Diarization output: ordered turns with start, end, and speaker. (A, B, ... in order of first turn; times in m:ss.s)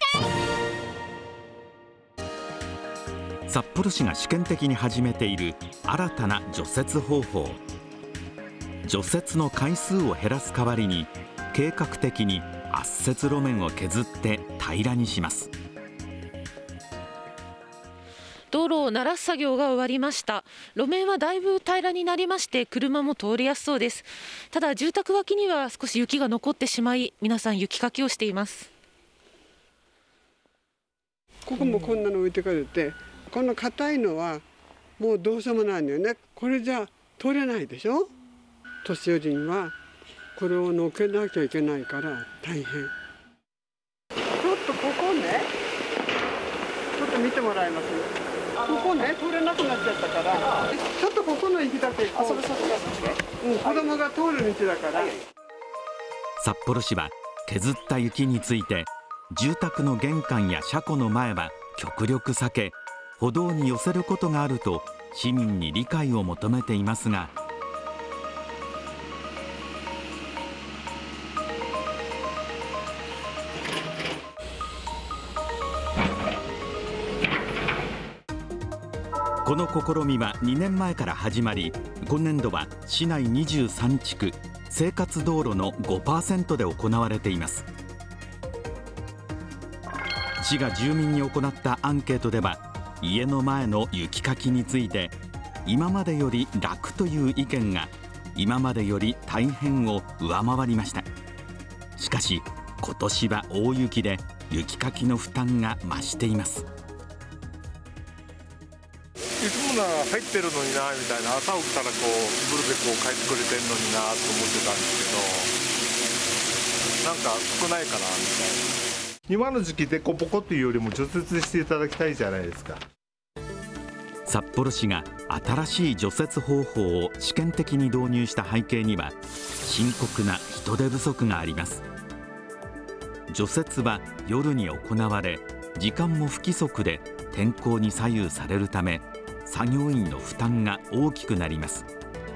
0:03.5-0:07.6 A
0:08.8-0:15.5 A
0:18.5-0:28.7 B
0:31.5-0:34.4 C
0:35.0-0:38.1 C
0:38.8-0:39.7 C
0:40.4-0:42.9 C
0:44.4-0:45.5 C
0:47.0-0:48.1 C
0:48.6-0:52.7 C
0:53.2-0:55.2 C
0:56.4-1:07.3 A
1:19.4-1:27.7 A
1:30.4-1:41.1 A
1:42.0-1:46.7 A
1:49.4-1:55.5 D
1:57.0-1:58.6 D
1:59.3-2:02.8 D
2:04.3-2:11.8 A
2:13.3-2:21.9 A